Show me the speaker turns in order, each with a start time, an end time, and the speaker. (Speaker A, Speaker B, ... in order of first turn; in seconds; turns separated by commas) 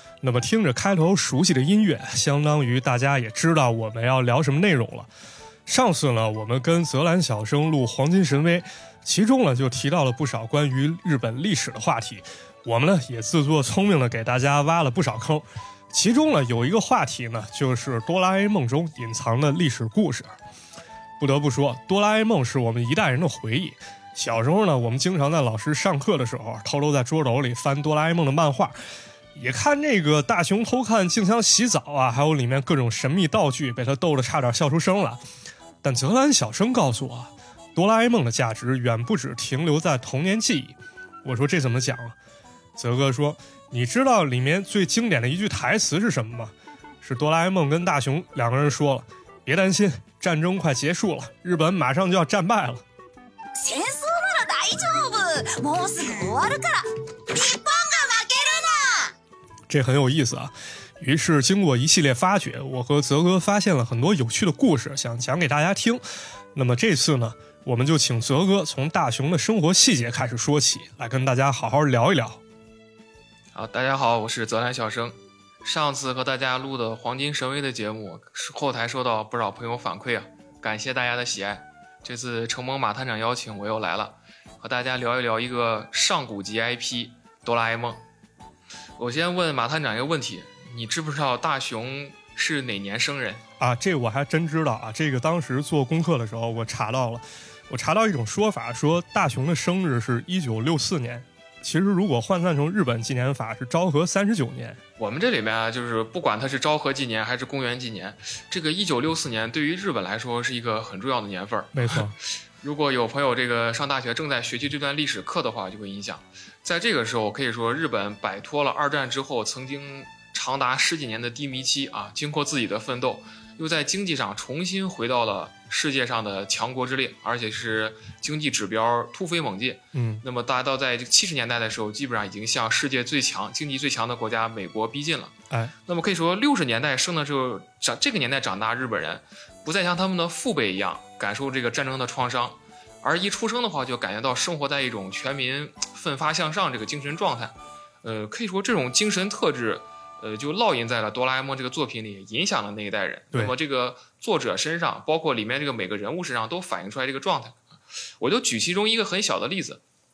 Speaker A: 0.2-5.1, Speaker A: 5.7-20.3, Speaker A: 21.2-28.7, Speaker A: 29.3-35.2, Speaker A: 35.8-42.1, Speaker A: 42.8-52.8, Speaker B: 53.5-59.1, Speaker A: 59.7-66.0, Speaker A: 66.5-72.4, Speaker C: 73.5-88.0, Speaker C: 89.0-93.4, Speaker A: 93.6-104.8, Speaker C: 105.0-157.6, Speaker A: 111.7-112.1, Speaker A: 129.9-130.2, Speaker C: 158.2-159.8